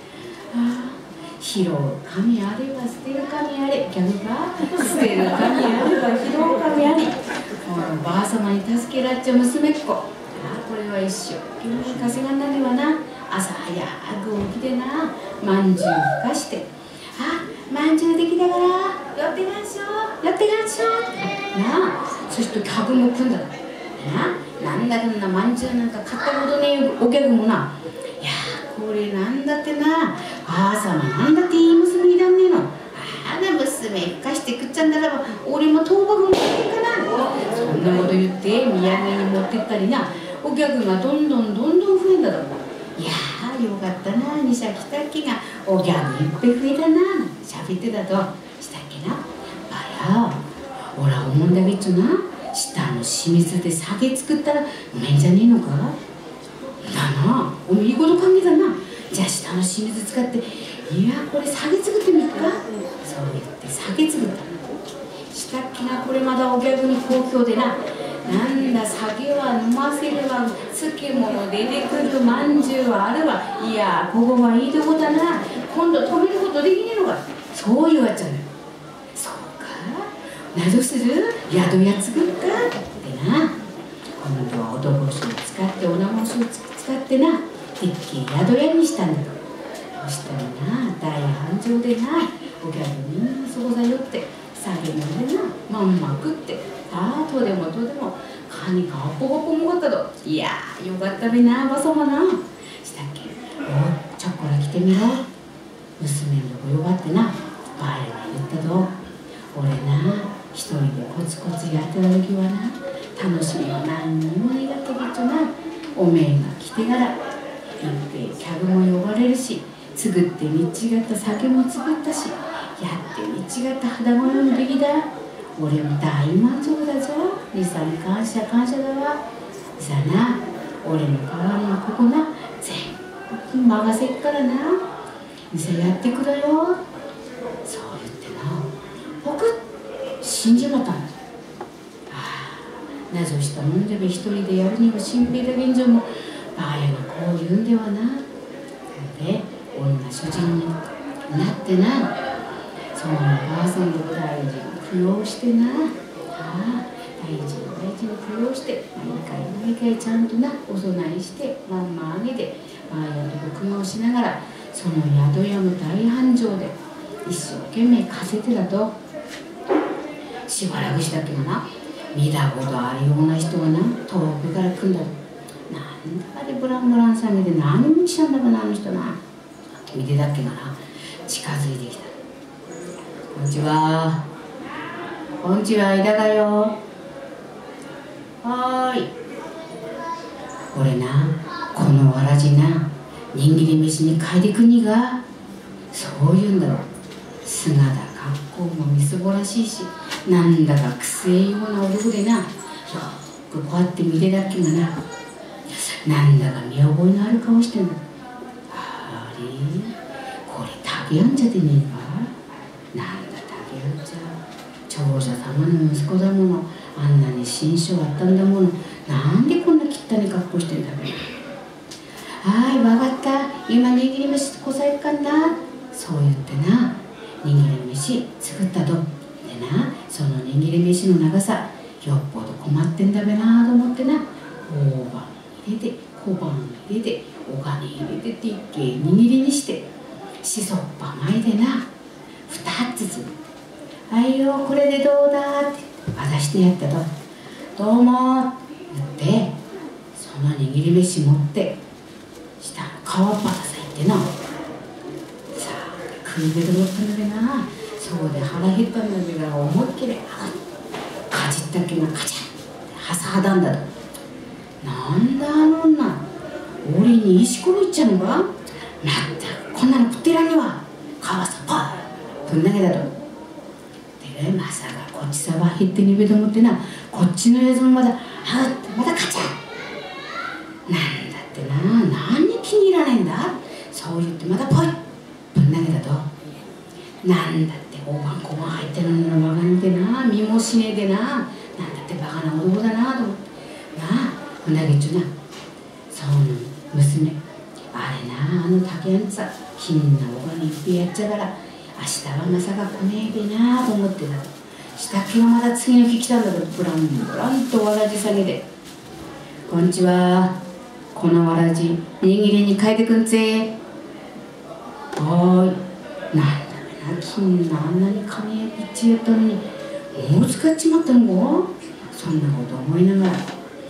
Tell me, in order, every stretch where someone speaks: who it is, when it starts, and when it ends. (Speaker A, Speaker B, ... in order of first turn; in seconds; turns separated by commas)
Speaker A: 0.5-56.0, Speaker A: 56.8-64.6, Speaker A: 65.3-78.5, Speaker A: 79.1-83.5, Speaker A: 84.2-89.4, Speaker A: 90.0-105.3, Speaker A: 106.0-108.9, Speaker A: 109.5-117.2, Speaker A: 117.8-129.2, Speaker A: 129.8-134.8, Speaker A: 135.5-136.8, Speaker A: 137.6-139.6, Speaker A: 140.2-141.2, Speaker A: 142.1-148.2, Speaker A: 148.9-152.1, Speaker A: 152.9-169.0, Speaker A: 170.5-175.1, Speaker A: 175.7-179.2, Speaker A: 179.7-182.1, Speaker A: 183.3-184.2, Speaker A: 185.4-186.8, Speaker A: 188.4-189.1, Speaker A: 190.7-195.2, Speaker A: 195.9-196.9, Speaker A: 197.4-205.0, Speaker A: 205.7-208.0, Speaker A: 208.7-212.3, Speaker A: 212.9-221.3, Speaker A: 222.4-239.8, Speaker A: 240.4-241.9, Speaker A: 242.5-243.3, Speaker A: 244.1-247.1, Speaker A: 247.8-249.6, Speaker A: 250.1-251.8, Speaker A: 252.6-254.3, Speaker A: 255.5-260.6, Speaker A: 261.3-263.9, Speaker A: 264.8-266.2, Speaker A: 266.8-273.1, Speaker A: 274.2-279.6, Speaker A: 280.9-286.3, Speaker A: 287.2-293.4, Speaker A: 293.9-295.3, Speaker A: 296.1-297.4, Speaker A: 297.9-308.6, Speaker A: 309.7-310.6, Speaker A: 311.1-313.8, Speaker A: 315.1-315.8, Speaker A: 316.3-323.5